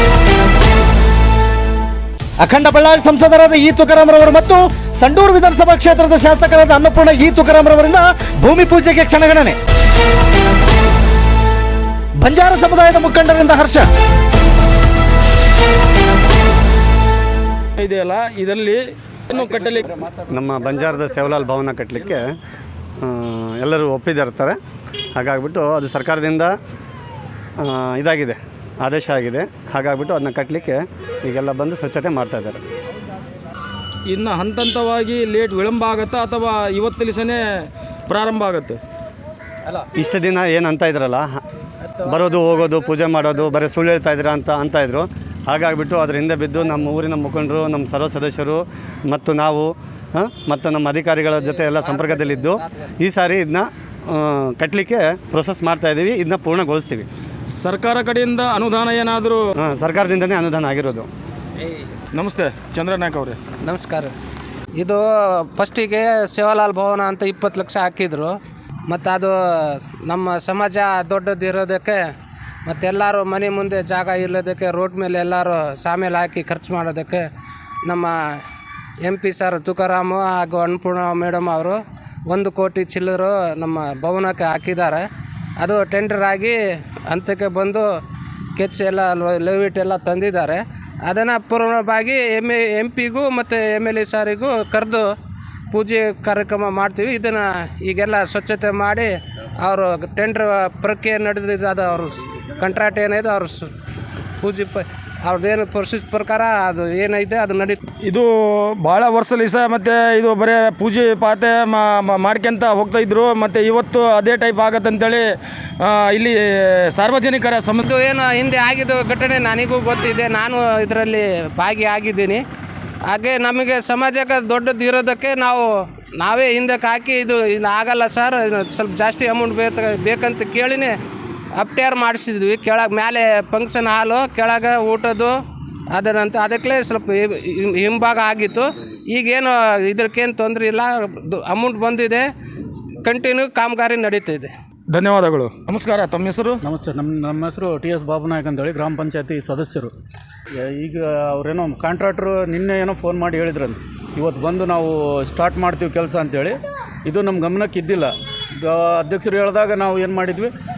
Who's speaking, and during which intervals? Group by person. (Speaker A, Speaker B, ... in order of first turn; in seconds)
Speaker A: 2.4-9.6, 12.2-13.9
Speaker B: 17.8-19.8, 34.1-37.4, 38.1-38.8, 57.6-59.4, 62.1-63.4, 108.0-115.3, 115.8-117.8, 144.9-146.6
Speaker C: 20.1-22.4, 23.0-24.6, 25.2-26.6, 27.6-32.6, 40.0-41.3, 42.0-57.1, 59.6-61.1
Speaker D: 41.8-43.0, 51.4-52.9, 63.6-64.1, 64.8-68.3, 68.9-72.0, 72.7-77.3, 77.9-78.4, 79.0-85.1, 85.6-87.9, 88.6-95.1, 95.7-103.7, 104.4-107.8, 117.8-122.4, 123.1-130.9, 131.6-135.3, 135.9-142.3, 143.0-144.5
Speaker E: 146.6-149.9, 150.6-160.5